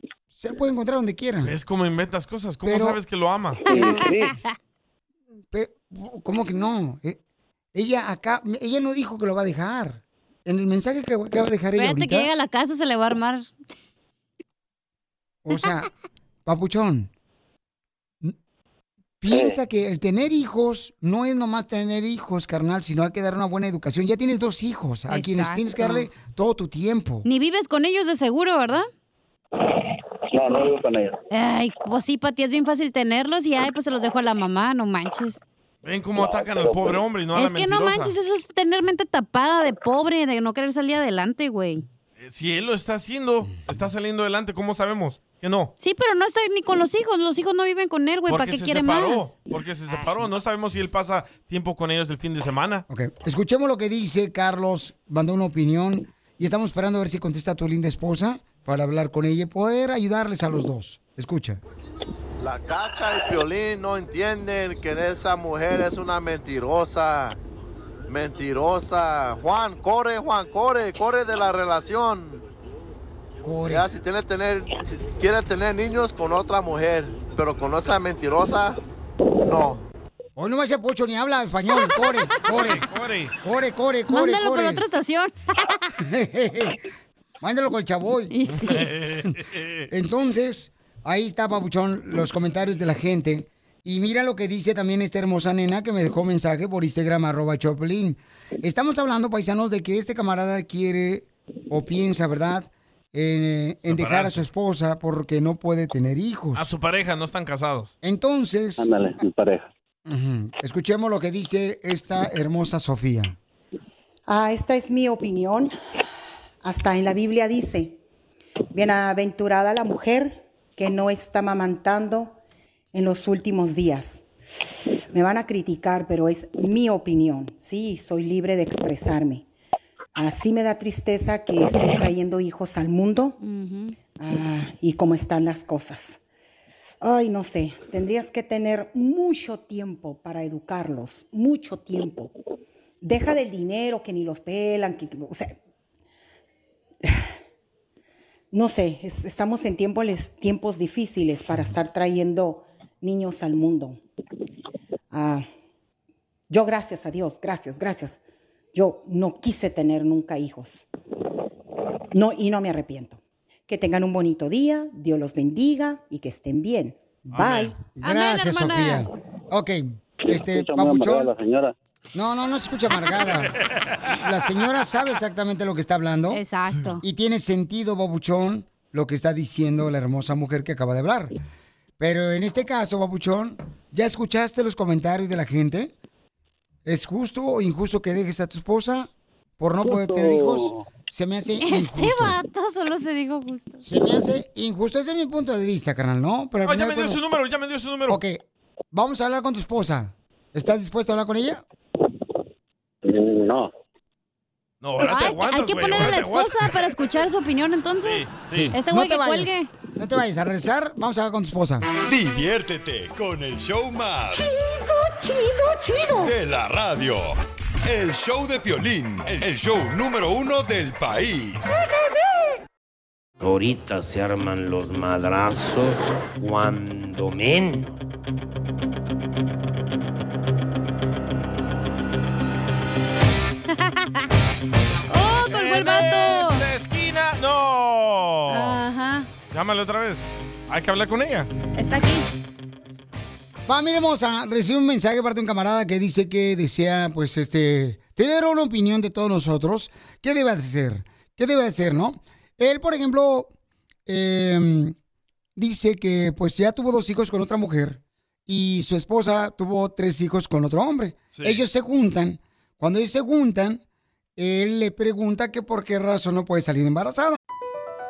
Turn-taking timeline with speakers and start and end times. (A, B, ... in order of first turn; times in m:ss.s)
0:00.3-0:01.5 A
0:01.4-0:03.8 B
0:02.6-0:03.0 A
0:03.7-0:04.3 C
0:03.8-0:04.4 D
0:05.5-0:07.2 A
0:07.7-0:12.3 A
0:11.8-0:13.5 D
0:15.4-0:15.9 A
0:16.4-0:17.1 A
0:19.2-0:27.2 A
0:19.3-0:19.6 C
0:25.1-0:26.1 D
0:27.2-0:28.9 D
0:30.3-0:31.2 C
0:31.3-0:35.4 D
0:35.8-0:38.1 B
0:36.2-0:37.0 C
0:37.3-0:41.8 D
0:42.2-0:45.7 B
0:45.8-0:49.3 D
0:48.3-0:52.8 B
0:52.9-1:01.6 A
1:02.4-1:07.4 E
1:08.1-1:12.4 E
1:13.4-1:13.8 A
1:13.6-1:18.8 E
1:19.4-1:19.8 E
1:20.4-1:22.8 A
1:21.7-1:22.1 D
1:22.5-1:23.3 B
1:23.4-1:24.8 A
1:24.1-1:25.8 D
1:26.0-1:26.8 A
1:27.4-1:28.3 A
1:28.3-1:28.9 D
1:28.6-1:29.7 B
1:29.9-1:46.7 A
1:43.8-1:44.4 B
1:46.5-1:47.9 B
1:48.0-1:48.9 A
1:48.8-1:49.7 C
1:50.0-1:53.4 A
1:54.3-1:55.7 F
1:56.6-1:58.0 F
1:58.7-2:02.4 F
2:02.9-2:09.4 F
2:10.1-2:13.4 F
2:13.4-2:13.9 D
2:14.2-2:16.2 F
2:17.0-2:22.3 F
2:23.0-2:25.6 F
2:28.5-2:34.0 F
2:35.1-2:35.5 F
2:36.5-2:38.2 F
2:38.7-2:40.9 F
2:42.1-2:47.0 F
2:47.3-2:51.3 A
2:47.3-2:47.7 B
2:48.0-2:49.1 D
2:50.3-2:51.7 C
2:52.1-2:53.5 A
2:54.2-2:56.4 A
2:56.3-2:57.0 D
2:57.0-3:01.3 A
3:02.0-3:05.9 A
3:06.8-3:12.4 A
3:09.8-3:10.8 C
3:11.6-3:13.8 D
3:13.8-3:17.3 A
3:16.6-3:18.2 B
3:18.1-3:21.6 A
3:23.0-3:23.7 C
3:24.8-3:26.9 B
3:25.0-3:29.7 D
3:28.0-3:28.7 B
3:28.5-3:31.8 A
3:32.0-3:34.6 G
3:36.1-3:41.8 G
3:43.4-3:48.0 H
3:53.7-3:54.2 D
3:55.1-3:56.6 D
3:55.5-3:58.8 B
3:58.5-3:59.3 D
3:59.5-4:01.5 B
4:01.8-4:02.2 D
4:03.6-4:13.5 A
4:14.1-4:14.9 A
4:15.6-4:23.8 A
4:21.3-4:21.6 B
4:24.4-4:27.4 A